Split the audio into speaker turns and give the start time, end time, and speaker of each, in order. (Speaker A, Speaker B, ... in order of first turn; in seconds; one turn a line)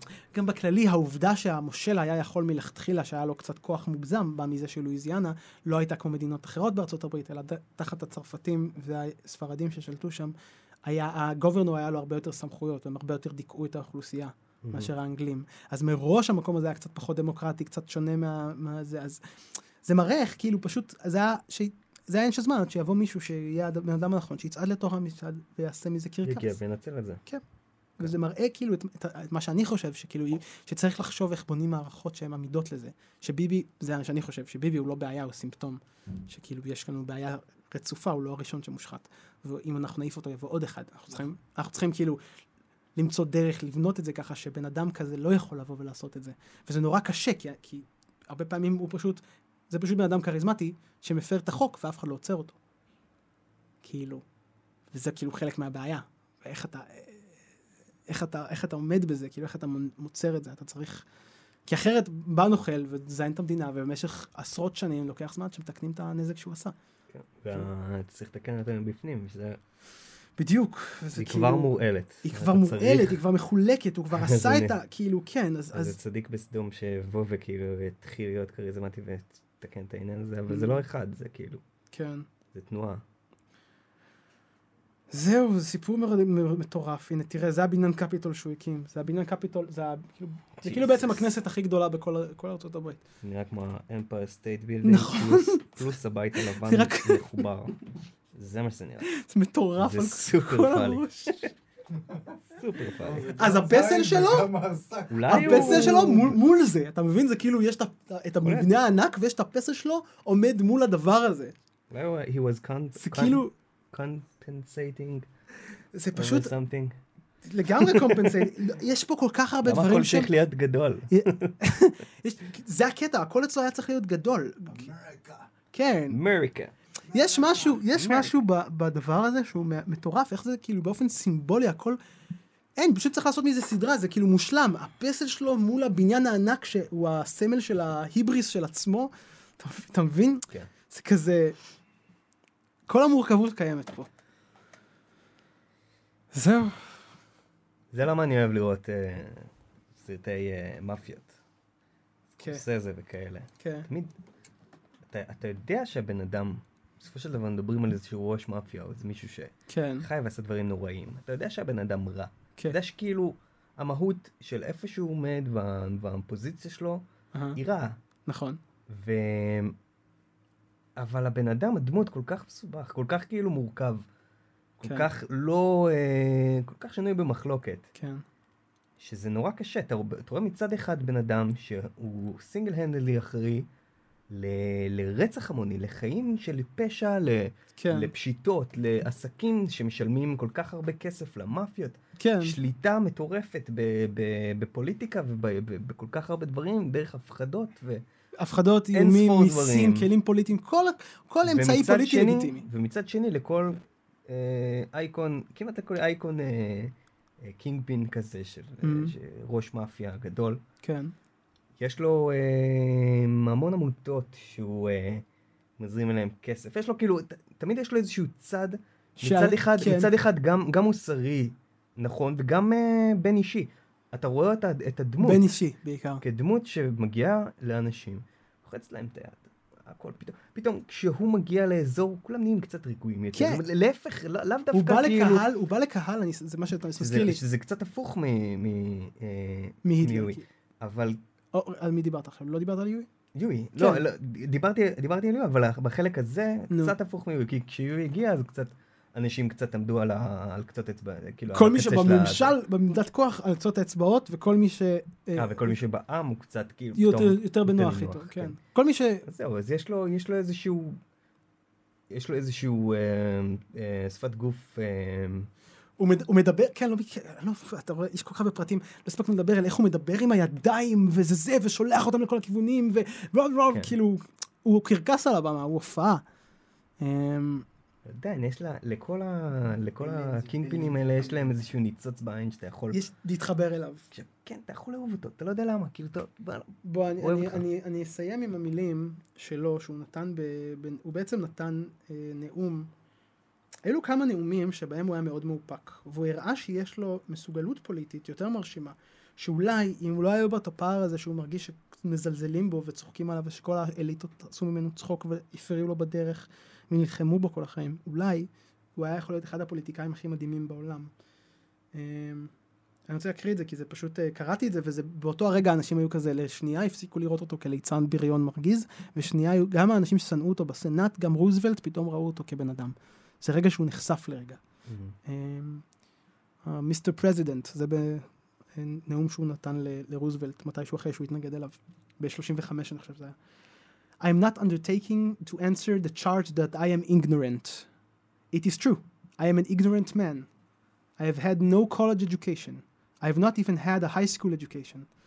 Speaker A: 0.3-10.3
Speaker A: 10.8-19.2
Speaker B: 14.6-14.9
Speaker A: 19.8-26.6
Speaker B: 26.2-27.2
Speaker A: 28.0-42.2
Speaker A: 43.0-52.5
Speaker A: 53.8-54.2
Speaker A: 54.9-57.3
Speaker A: 58.1-61.0
Speaker A: 61.7-66.7
Speaker B: 67.1-69.6
Speaker A: 70.4-76.0
Speaker B: 71.1-73.2
Speaker B: 74.1-74.7
Speaker B: 75.7-81.6
Speaker A: 80.5-80.8
Speaker A: 81.9-82.3
Speaker B: 82.5-83.0
Speaker A: 85.1-93.0
Speaker B: 90.6-91.2
Speaker B: 93.2-97.7
Speaker A: 94.8-97.4
Speaker B: 98.3-99.1
Speaker A: 99.0-101.5
Speaker B: 99.8-101.5
Speaker B: 102.5-103.3
Speaker C: 103.0-106.1
Speaker A: 103.4-104.5
Speaker B: 105.1-106.4
Speaker A: 105.3-111.5
Speaker B: 108.4-108.8
Speaker B: 111.9-115.2
Speaker A: 113.0-113.5
Speaker A: 115.9-116.5
Speaker B: 116.2-117.0
Speaker A: 117.4-120.3
Speaker B: 117.8-118.5
Speaker B: 119.6-121.5
Speaker A: 121.1-124.9
Speaker C: 124.7-125.5
Speaker A: 125.7-126.2
Speaker B: 126.1-126.7
Speaker A: 127.1-132.0
Speaker B: 128.0-128.3
Speaker A: 132.8-141.6
Speaker A: 142.9-144.1
Speaker A: 146.3-147.0
Speaker B: 147.9-151.3
Speaker A: 152.4-152.6
Speaker B: 152.4-154.1
Speaker A: 153.6-153.9
Speaker B: 155.1-167.0
Speaker A: 159.7-160.1
Speaker A: 167.3-167.6
Speaker B: 167.5-168.0
Speaker A: 168.2-168.6
Speaker B: 168.9-169.8
Speaker B: 171.0-174.0
Speaker B: 174.8-177.8
Speaker A: 174.8-175.1
Speaker A: 177.9-178.2
Speaker B: 179.0-183.7
Speaker B: 184.3-198.0
Speaker A: 187.8-188.1
Speaker A: 192.2-192.6
Speaker A: 198.4-202.7
Speaker B: 198.9-200.1
Speaker B: 201.4-210.6
Speaker A: 208.8-209.1
Speaker A: 210.8-211.1
Speaker B: 211.8-215.2
Speaker B: 215.8-225.5
Speaker A: 219.2-220.1
Speaker A: 225.2-226.2
Speaker B: 226.2-235.4
Speaker A: 233.3-233.6
Speaker A: 234.7-237.4
Speaker B: 237.0-241.2
Speaker A: 239.8-240.4
Speaker A: 241.5-243.1
Speaker B: 243.3-252.6
Speaker A: 243.8-244.0
Speaker A: 246.7-246.9
Speaker A: 251.5-255.7
Speaker B: 255.3-258.6
Speaker A: 256.9-259.2
Speaker B: 259.2-261.0
Speaker B: 262.1-265.5
Speaker A: 266.0-276.2
Speaker B: 273.7-273.9
Speaker A: 277.0-277.6
Speaker B: 278.0-283.0
Speaker C: 280.3-281.4
Speaker A: 282.9-284.0
Speaker B: 284.1-287.6
Speaker A: 286.8-292.9
Speaker A: 293.8-311.1
Speaker A: 311.9-312.5
Speaker A: 313.1-324.6
Speaker B: 324.9-325.1
Speaker A: 325.2-325.8
Speaker A: 326.6-333.4
Speaker A: 334.2-337.9
Speaker A: 338.5-340.5
Speaker A: 341.2-345.1